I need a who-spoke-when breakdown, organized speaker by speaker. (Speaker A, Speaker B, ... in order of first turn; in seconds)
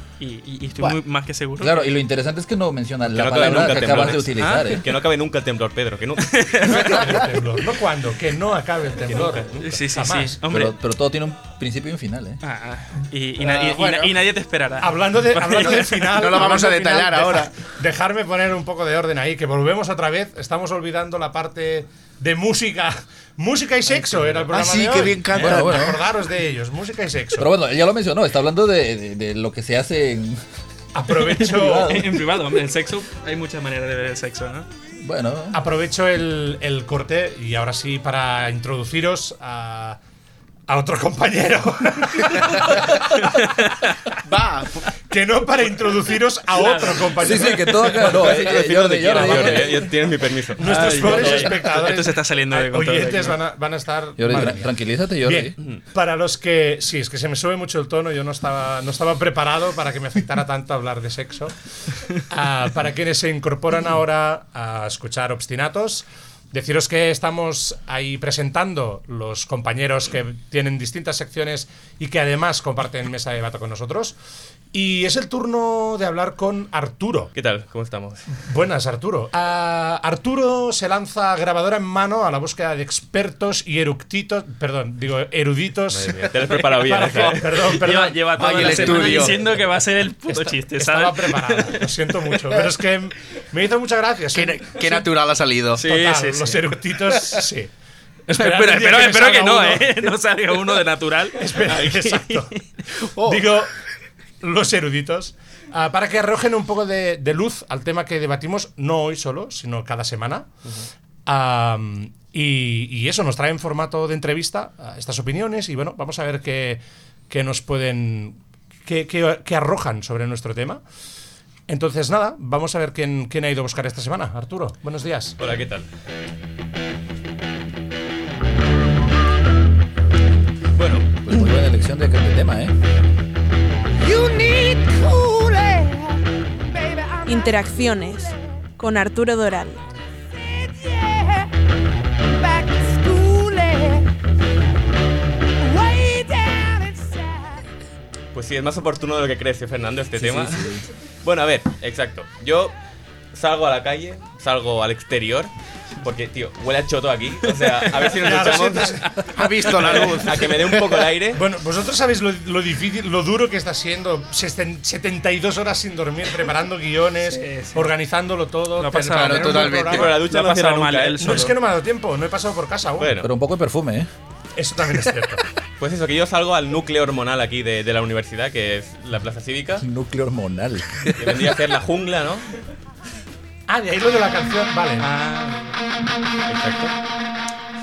Speaker A: 0.2-1.9, 4.4-4.8, 6.3-7.2, 9.6-10.7, 12.4-16.4, 31.5-34.7, 43.1-43.9, 46.5-48.3, 50.7-53.4, 87.2-91.8, 95.8-96.7, 98.3-102.6, 167.3-167.9, 168.8-171.6, 185.0-185.7
Speaker B: 1.6-4.8, 10.5-12.4, 25.3-26.0, 27.4-30.4, 31.2-32.2, 35.0-35.6, 47.2-49.9, 54.2-55.5, 131.2-132.8, 150.2-150.9, 173.2-174.1, 179.8-181.4
Speaker C: 3.1-7.2, 48.0-51.0, 77.3-78.2, 85.9-87.8, 125.4-125.9, 130.8-131.1, 148.3-150.7, 151.2-152.7, 153.3-159.1, 159.7-161.4, 169.9-171.4, 173.0-173.3, 175.8-179.8, 181.2-182.5, 186.5-186.9
Speaker D: 6.7-10.4, 13.4-14.2, 14.8-27.5, 30.9-32.0, 35.5-40.0, 40.7-43.5, 45.1-48.0, 50.5-61.6, 62.1-74.2, 74.7-77.3, 78.5-89.3, 90.8-95.1, 95.8-97.7, 98.3-100.1, 101.3-102.7, 103.2-103.7, 104.4-110.5, 111.3-120.8, 121.7-125.4, 158.2-170.1, 171.2-173.2, 174.6-175.4, 183.7-185.1
Speaker E: 16.1-17.5, 24.5-26.0, 44.2-44.9, 49.3-49.5, 88.4-89.4, 94.3-95.9, 103.2-103.4, 159.3-160.4, 169.1-170.1
Speaker F: 137.3-139.9